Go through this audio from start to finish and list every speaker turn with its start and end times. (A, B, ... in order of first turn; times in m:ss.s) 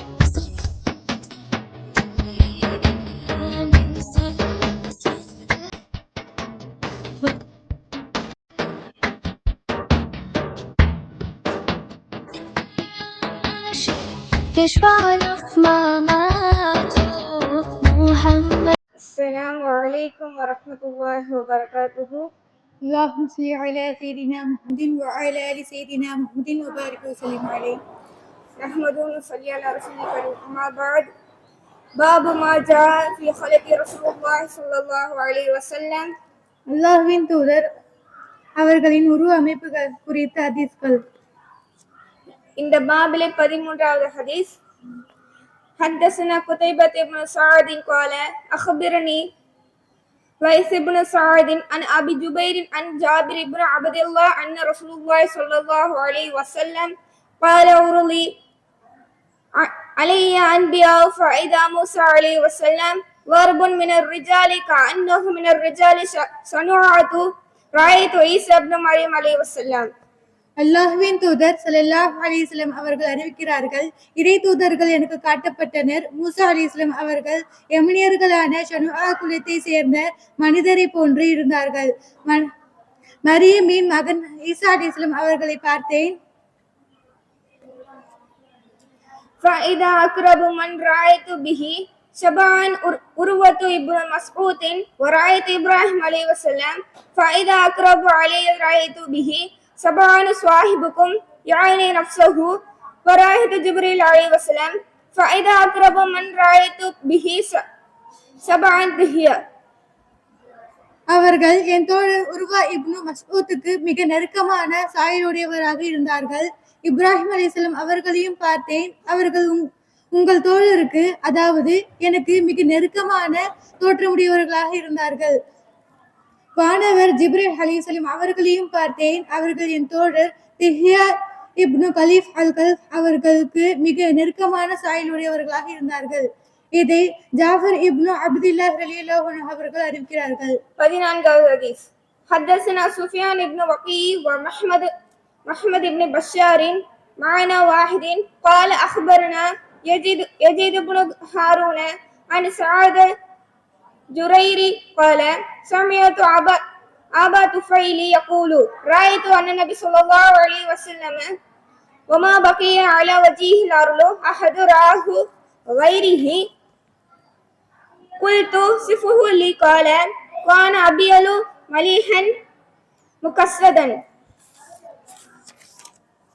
0:03.2-0:04.3 A
0:13.5-0:13.9 A
0:14.5-0:18.8 A
0:19.0-0:22.3 B
0:22.9-0:27.8 C
0:28.6-0:31.1 B
0:32.0-0:36.1 B
0:36.7-0:37.6 C
0:38.6-0:41.0 C
0:42.6-0:44.6 B
0:45.8-0:49.3 B
0:50.4-0:58.3 B
0:59.6-1:09.9 B
1:10.6-1:22.5 C
1:23.2-1:26.2 C
1:29.4-1:47.6 B
1:48.4-1:49.4 B
1:51.1-2:05.4 C
2:06.6-2:20.6 C
2:20.8-2:24.9 B
2:25.4-2:33.1 B
2:34.1-2:36.6 B
2:37.1-2:41.3 B
2:42.1-2:46.5 B
2:48.2-2:52.3 B
2:53.2-2:54.0 B